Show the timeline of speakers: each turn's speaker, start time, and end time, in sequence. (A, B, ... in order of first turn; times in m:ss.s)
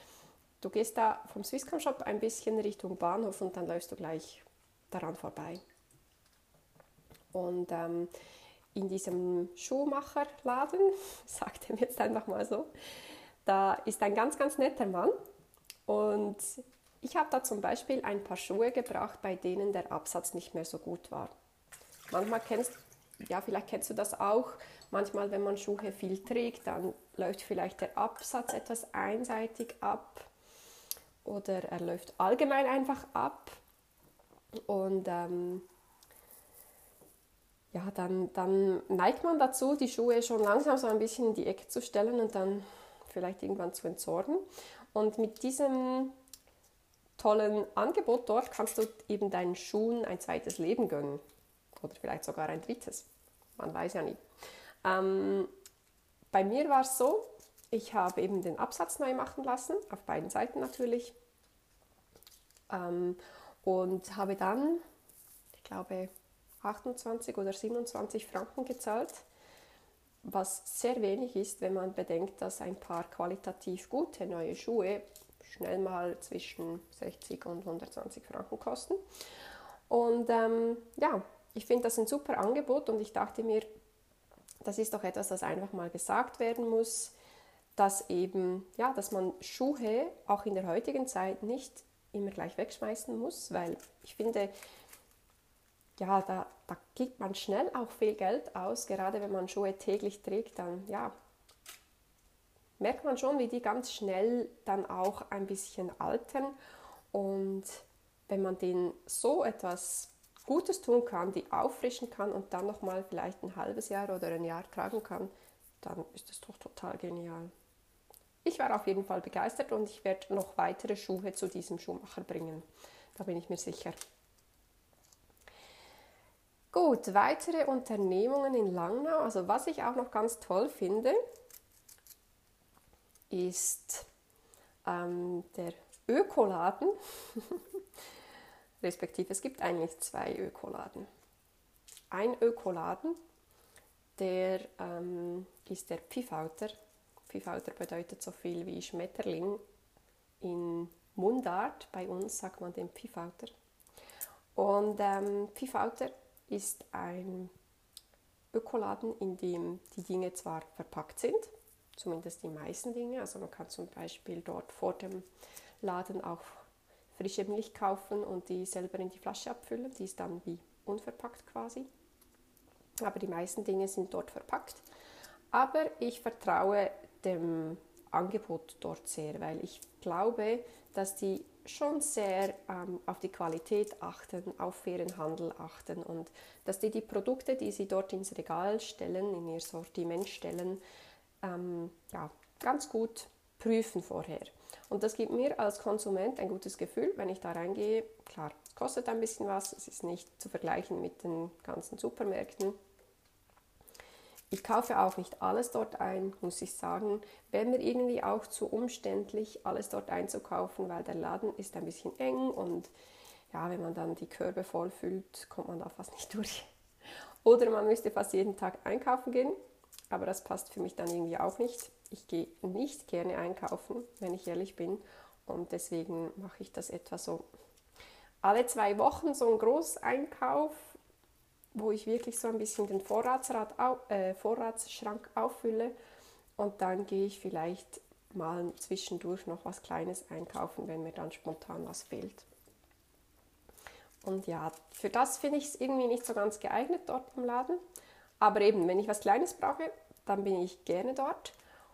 0:00.6-0:05.6 A
0:07.3-0:08.1 A
0:08.7-0:12.7 A
0:13.4-0:15.2 A
0:15.9-0:21.3 A
0:22.1-0:30.3 A
0:31.2-0:33.6 A
0:34.7-0:35.7 A
0:37.7-0:46.2 A
0:47.2-0:51.2 A
0:51.8-0:54.2 A
0:54.8-0:55.5 A
0:56.3-1:01.2 A
1:02.7-1:04.8 A
1:05.6-1:06.1 A
1:06.6-1:09.3 A
1:10.2-1:19.0 A
1:19.9-1:23.7 A
1:24.6-1:27.2 A
1:27.8-1:34.5 A
1:36.0-1:41.1 A
1:42.8-1:46.6 A
1:47.1-1:57.5 A
1:58.4-2:04.0 A
2:06.7-2:11.2 A
2:13.3-2:14.1 A
2:14.8-2:17.8 A
2:18.8-2:21.1 A
2:22.1-2:23.2 A
2:24.2-2:26.7 A
2:27.3-2:29.6 A
2:30.4-2:33.5 A
2:34.6-2:37.5 A
2:38.5-2:45.2 A
2:45.8-2:51.9 A
2:53.0-2:54.8 A
2:55.5-3:10.8 A
3:11.4-3:22.8 A
3:24.5-3:32.9 A
3:33.5-3:36.7 A
3:37.4-3:39.6 A
3:40.1-3:47.4 A
3:48.4-3:51.0 A
3:51.7-3:56.0 A
3:56.6-4:02.5 A
4:04.2-4:07.8 A
4:08.4-4:11.6 A